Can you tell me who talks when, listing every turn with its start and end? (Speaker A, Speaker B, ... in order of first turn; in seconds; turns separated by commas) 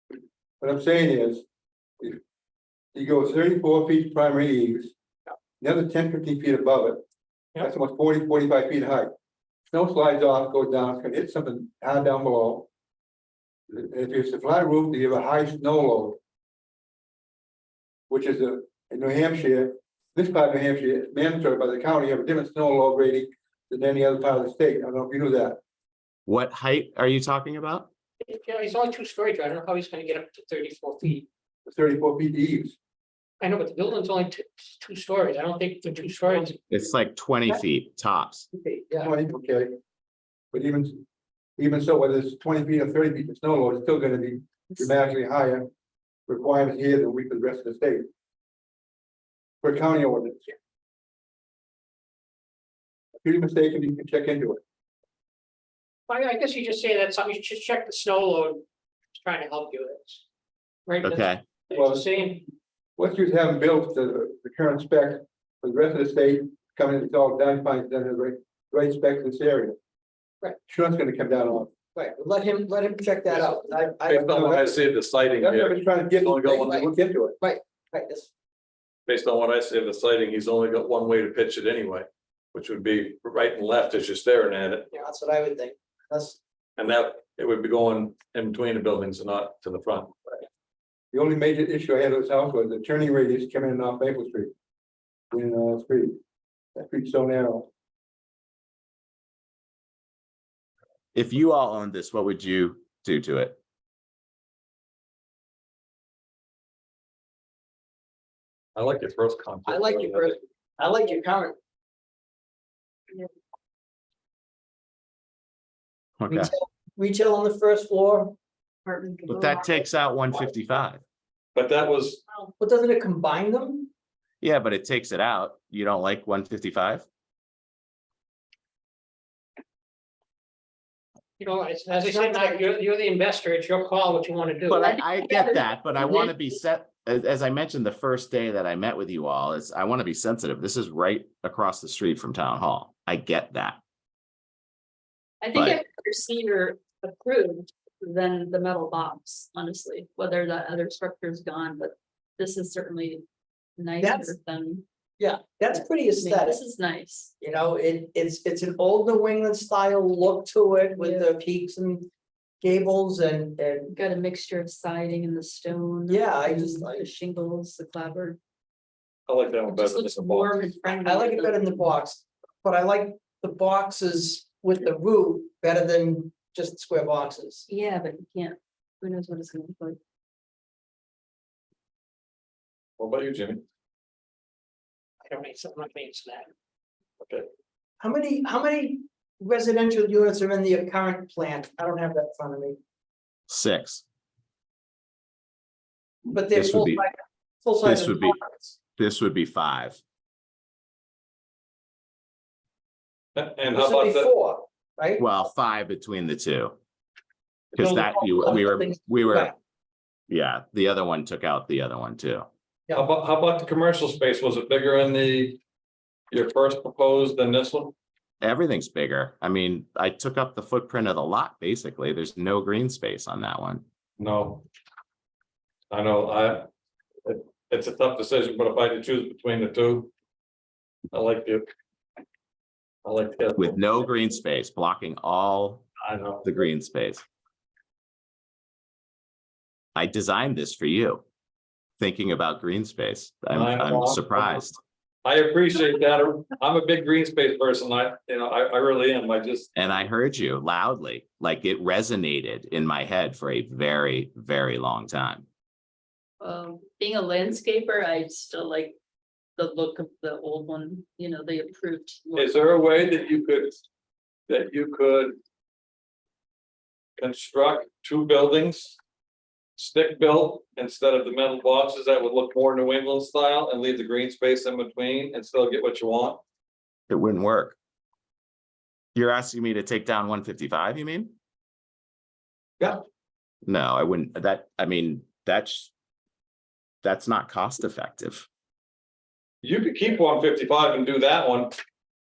Speaker A: 0.6-1.4, Speaker A: 2.9-4.9, Speaker A: 5.6-7.0, Speaker A: 7.6-9.1, Speaker A: 9.7-12.7, Speaker A: 13.7-16.2, Speaker A: 18.1-25.6, Speaker B: 26.3-27.9, Speaker C: 28.2-31.3, Speaker A: 31.7-32.8, Speaker C: 33.4-36.6, Speaker B: 36.7-38.5, Speaker D: 38.5-39.1, Speaker A: 39.0-39.7, Speaker A: 40.5-41.0, Speaker A: 41.6-45.7, Speaker A: 46.3-48.1, Speaker A: 49.6-50.5, Speaker A: 53.2-54.6, Speaker C: 56.1-58.6, Speaker C: 59.1-60.2, Speaker C: 60.9-62.5, Speaker B: 61.0-61.4, Speaker A: 61.7-62.1, Speaker A: 63.0-69.8, Speaker A: 70.7-71.7, Speaker D: 72.0-74.6, Speaker E: 73.3-76.8, Speaker A: 74.1-74.8, Speaker A: 75.4-77.4, Speaker D: 77.4-78.3, Speaker E: 79.1-84.9, Speaker D: 84.9-86.4, Speaker E: 86.8-90.1, Speaker A: 91.1-94.5, Speaker A: 95.3-96.2, Speaker A: 96.8-97.7, Speaker B: 101.1-103.6, Speaker E: 108.8-110.3, Speaker D: 109.7-111.6, Speaker B: 116.2-116.5, Speaker D: 116.3-118.4, Speaker F: 118.9-119.9, Speaker B: 119.3-121.0, Speaker E: 121.5-122.2, Speaker D: 122.6-123.9, Speaker B: 124.4-127.1, Speaker C: 131.4-134.9, Speaker D: 131.9-132.7, Speaker B: 134.7-143.8, Speaker F: 134.8-136.3, Speaker F: 145.4-153.2, Speaker F: 153.8-154.8, Speaker D: 154.0-154.3, Speaker D: 155.2-156.6, Speaker F: 156.2-157.3, Speaker D: 157.4-162.1, Speaker F: 161.0-161.3, Speaker D: 162.6-163.9, Speaker F: 163.9-168.4, Speaker D: 166.1-167.1, Speaker E: 169.3-170.7, Speaker F: 169.7-171.9, Speaker D: 170.7-177.7, Speaker F: 177.7-180.0, Speaker E: 183.0-183.6, Speaker C: 185.2-186.5, Speaker E: 187.2-187.5, Speaker D: 188.0-192.8, Speaker B: 193.5-194.0, Speaker D: 196.3-198.8, Speaker B: 196.5-197.0, Speaker B: 197.8-198.4, Speaker B: 199.0-200.0, Speaker E: 203.4-204.3, Speaker D: 203.7-205.2, Speaker B: 205.2-206.8, Speaker B: 207.7-209.5, Speaker D: 207.7-209.6, Speaker B: 210.3-212.5, Speaker E: 212.9-215.6, Speaker E: 216.3-218.0, Speaker B: 218.4-223.8, Speaker E: 224.2-224.7, Speaker E: 225.9-226.7, Speaker E: 227.2-230.1, Speaker E: 231.1-231.7, Speaker E: 233.0-233.8, Speaker B: 233.6-235.9, Speaker E: 236.0-236.4, Speaker B: 236.4-237.2, Speaker B: 239.9-241.2, Speaker B: 242.0-244.8, Speaker E: 243.5-244.6, Speaker E: 245.2-249.7, Speaker B: 249.8-255.5, Speaker F: 256.4-259.0, Speaker F: 259.6-262.7, Speaker E: 262.4-263.8, Speaker E: 264.5-265.4, Speaker E: 267.2-269.0, Speaker E: 269.8-276.4, Speaker B: 277.1-277.8, Speaker B: 279.1-281.3, Speaker B: 283.6-285.9, Speaker B: 287.0-288.5, Speaker E: 289.6-291.7